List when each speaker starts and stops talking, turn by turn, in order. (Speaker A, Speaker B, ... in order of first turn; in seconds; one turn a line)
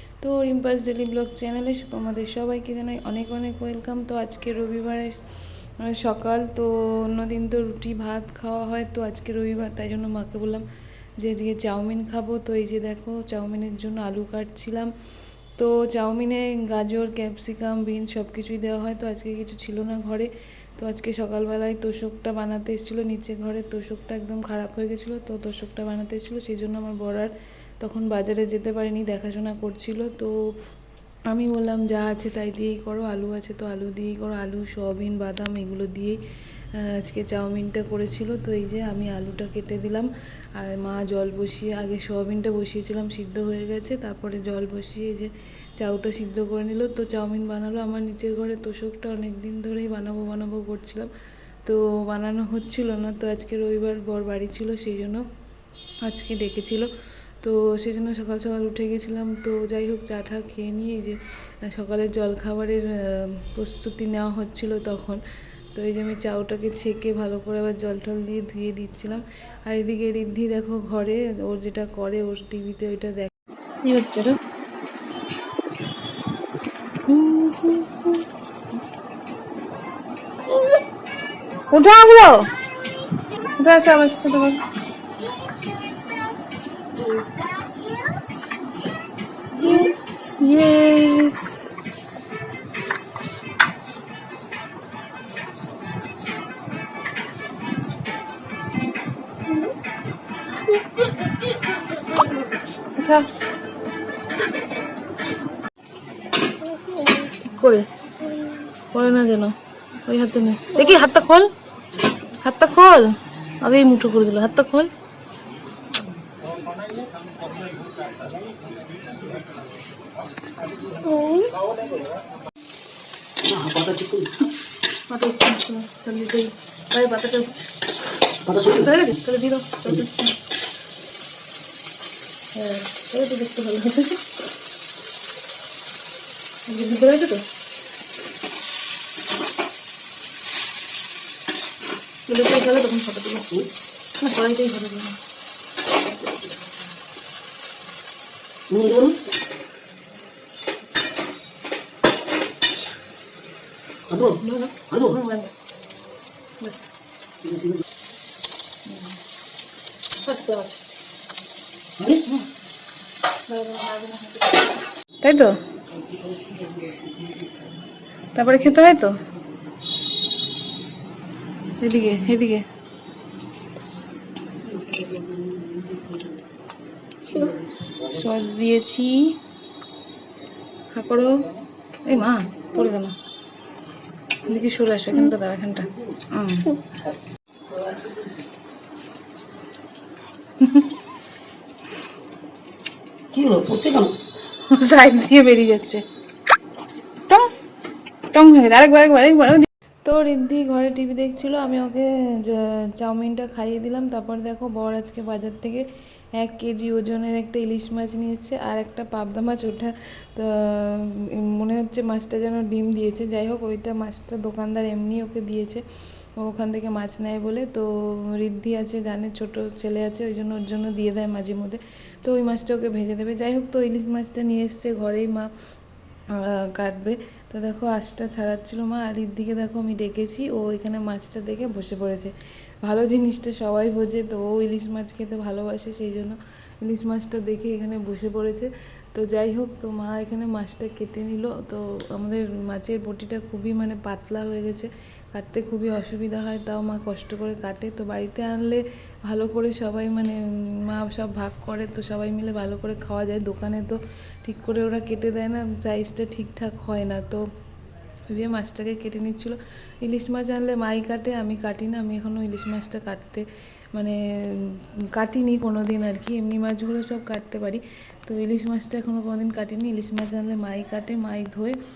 Speaker A: 0.2-10.7
Speaker A: 11.2-14.9
Speaker A: 15.6-30.4
Speaker A: 31.3-36.2
Speaker A: 36.8-51.1
Speaker A: 51.6-55.3
Speaker A: 56.0-65.2
Speaker A: 65.7-74.4
Speaker A: 77.1-78.3
Speaker A: 81.7-82.5
Speaker A: 83.6-84.6
Speaker A: 89.6-91.5
Speaker A: 103.0-103.3
Speaker A: 106.7-107.9
Speaker A: 108.9-111.5
Speaker A: 112.4-114.9
Speaker B: 121.0-121.5
Speaker B: 123.4-124.3
Speaker A: 125.1-127.6
Speaker B: 128.4-128.9
Speaker A: 128.6-130.3
Speaker A: 132.6-134.3
Speaker A: 136.7-137.5
Speaker A: 142.3-143.6
Speaker A: 144.2-145.2
Speaker B: 148.7-149.2
Speaker B: 154.1-154.4
Speaker A: 154.3-155.5
Speaker A: 156.6-156.9
Speaker A: 158.9-159.2
Speaker A: 160.2-160.7
Speaker A: 162.1-162.5
Speaker A: 163.5-164.6
Speaker A: 165.2-165.6
Speaker A: 168.3-169.2
Speaker A: 171.8-172.7
Speaker B: 174.8-176.1
Speaker B: 177.3-177.6
Speaker A: 178.0-179.4
Speaker A: 180.9-181.5
Speaker A: 182.1-183.2
Speaker A: 184.4-186.8
Speaker B: 187.8-188.1
Speaker A: 190.6-190.9
Speaker B: 193.3-194.2
Speaker A: 194.6-196.1
Speaker A: 197.3-197.5
Speaker A: 198.3-215.8
Speaker A: 216.4-225.5
Speaker A: 226.3-257.5
Speaker A: 258.3-271.8